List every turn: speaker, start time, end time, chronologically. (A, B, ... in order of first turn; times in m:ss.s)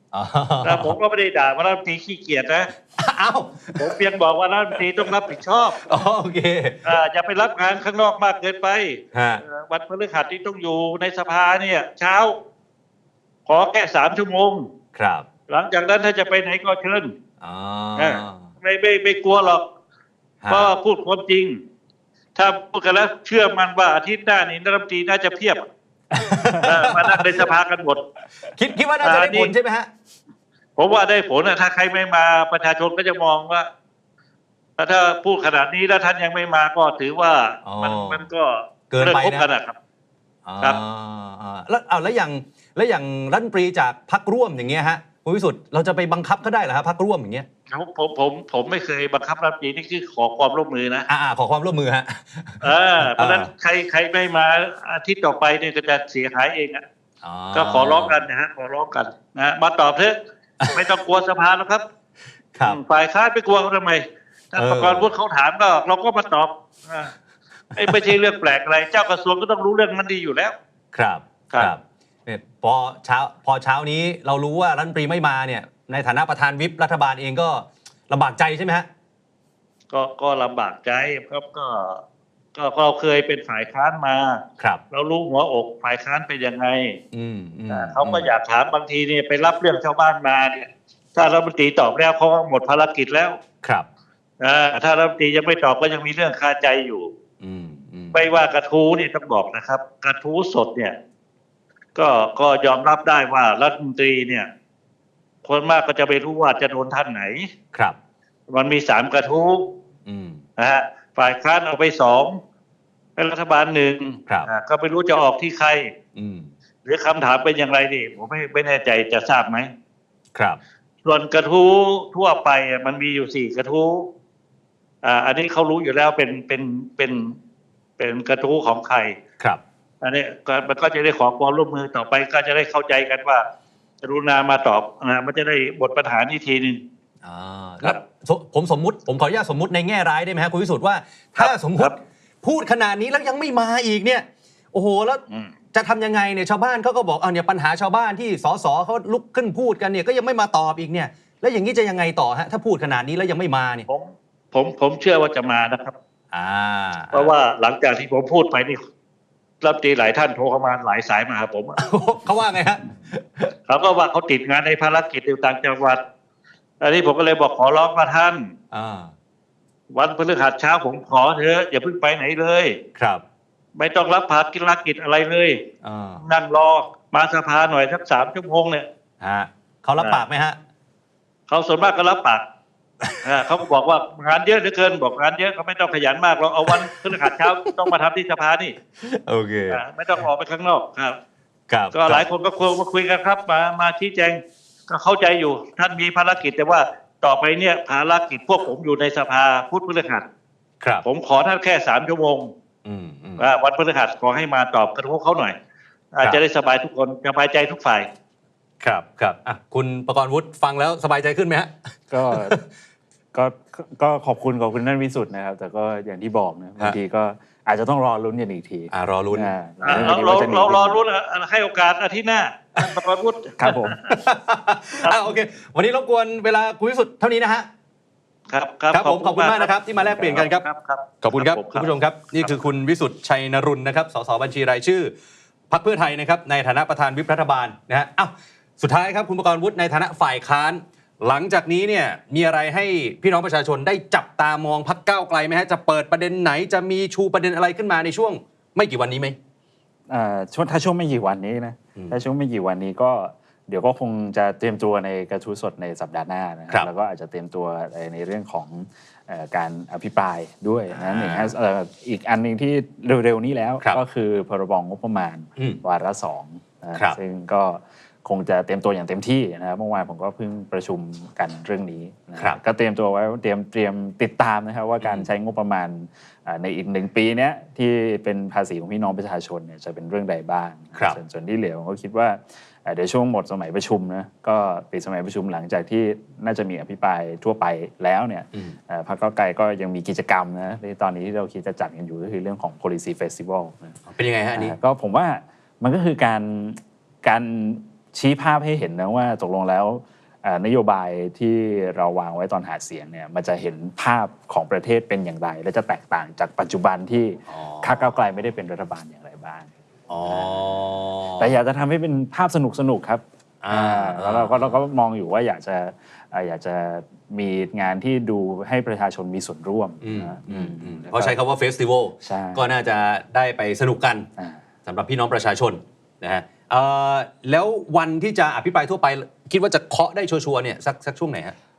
0:00.1-0:01.0 A
0:00.6-0:02.7 B
0:03.0-0:03.9 A
0:03.8-0:05.9 B
0:05.8-0:06.8 A
0:06.8-0:12.4 B
0:09.1-0:09.4 A
0:13.5-0:14.7 B
0:15.0-0:15.3 A
0:15.5-0:17.1 B
0:17.4-0:18.5 A
0:18.0-0:19.7 B
0:20.4-0:20.7 A
0:20.5-0:21.5 B
0:22.4-0:25.7 B
0:26.1-0:27.2 A
0:26.6-0:28.0 B
0:28.5-0:29.9 A
0:29.0-0:29.5 B
0:30.8-0:33.7 B
0:34.8-0:39.8 B
0:37.6-0:38.2 A
0:38.9-0:39.5 A
0:40.5-0:47.5 A
0:47.7-0:51.1 B
0:51.1-0:53.5 A
0:52.6-0:56.8 B
0:57.2-0:58.3 A
0:57.6-1:00.2 B
1:00.7-1:01.8 B
1:02.6-1:07.1 B
1:04.6-1:05.1 A
1:07.8-1:08.1 A
1:07.8-1:10.6 B
1:10.9-1:18.9 A
1:19.9-1:22.0 B
1:22.6-1:27.0 B
1:27.1-1:28.3 A
1:27.7-1:33.4 B
1:34.4-1:37.1 B
1:37.4-1:38.2 A
1:38.1-1:41.0 B
1:42.0-1:44.5 B
1:45.4-1:47.5 B
1:48.5-1:49.7 B
1:50.1-1:50.4 A
1:50.6-1:52.4 B
1:53.2-1:55.9 B
1:56.2-1:56.5 A
1:56.8-1:59.7 B
2:01.0-2:04.1 B
2:05.0-2:07.4 B
2:08.0-2:09.2 B
2:10.0-2:13.4 B
2:14.0-2:16.8 B
2:17.2-2:25.2 A
2:21.4-2:21.9 B
2:25.3-2:25.5 B
2:25.7-2:33.9 A
2:33.9-2:35.9 B
2:36.3-2:37.3 A
2:37.1-2:38.8 B
2:39.6-2:41.8 B
2:41.8-2:43.5 A
2:43.7-2:46.0 B
2:46.8-2:48.5 B
2:48.7-2:49.1 A
2:49.9-2:52.8 B
2:53.0-2:53.2 A
2:53.8-2:55.6 B
2:55.8-2:56.2 A
2:56.2-2:58.9 B
2:59.2-3:00.6 A
3:00.0-3:00.2 B
3:01.5-3:02.4 B
3:03.2-3:08.8 B
3:06.7-3:07.7 A
3:09.0-3:09.8 A
3:09.7-3:11.2 B
3:11.7-3:12.2 A
3:11.9-3:20.2 B
3:20.8-3:21.1 A
3:21.0-3:22.5 B
3:22.8-3:23.4 A
3:23.4-3:25.6 B
3:26.1-3:28.1 B
3:28.8-3:32.6 A
3:32.1-3:32.6 C
3:33.3-3:41.0 C
3:38.9-3:40.1 A
3:39.8-3:44.2 B
3:43.6-3:44.0 C
3:44.1-3:47.7 A
3:48.5-3:52.5 B
3:48.9-3:50.6 A
3:51.2-3:55.1 A
3:55.7-4:09.4 A
4:10.1-4:54.0 C
4:20.9-4:21.5 A
4:35.0-4:35.3 A
4:54.1-4:54.8 A
4:54.5-5:09.7 C
5:07.5-5:08.2 A
5:10.1-5:11.6 A
5:10.2-5:21.4 C
5:13.6-5:14.8 A
5:20.0-5:24.3 A
5:22.2-5:22.7 C
5:24.8-5:31.6 A